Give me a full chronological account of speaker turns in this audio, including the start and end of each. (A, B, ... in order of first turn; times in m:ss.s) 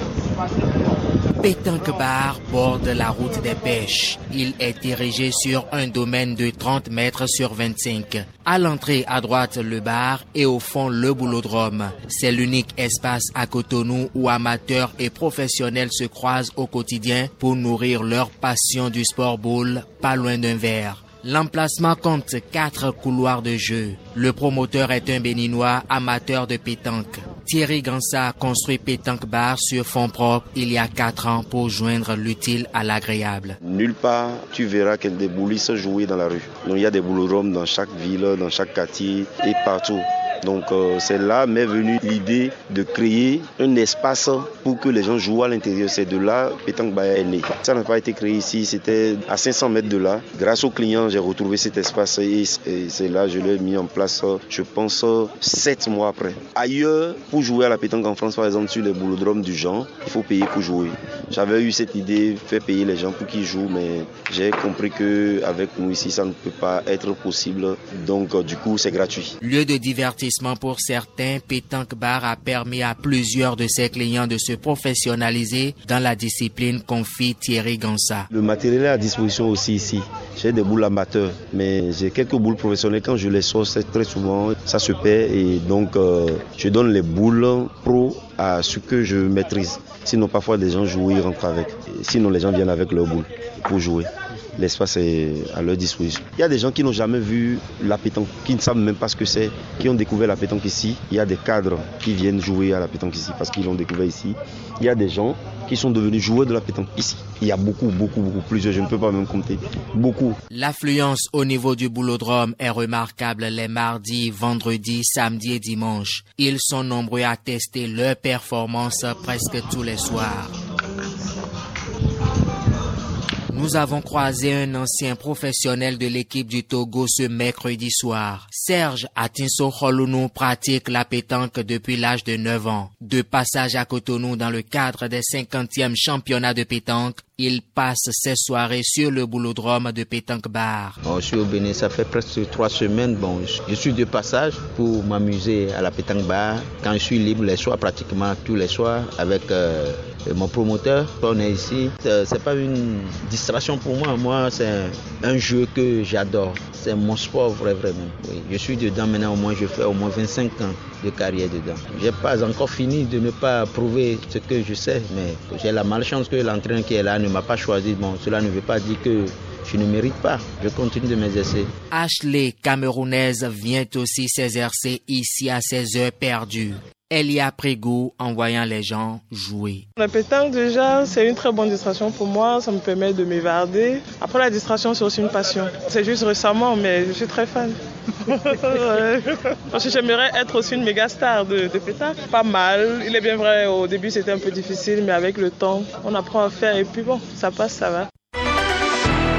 0:01.4-0:33.6 A
0:33.6-1:09.3 B
1:09.4-1:18.3 A
1:18.3-1:50.4 B
1:50.5-2:00.5 A
2:03.5-2:21.0 A
2:21.0-2:51.7 C
2:51.9-2:59.8 A
3:00.0-3:07.8 D
3:08.3-3:18.1 D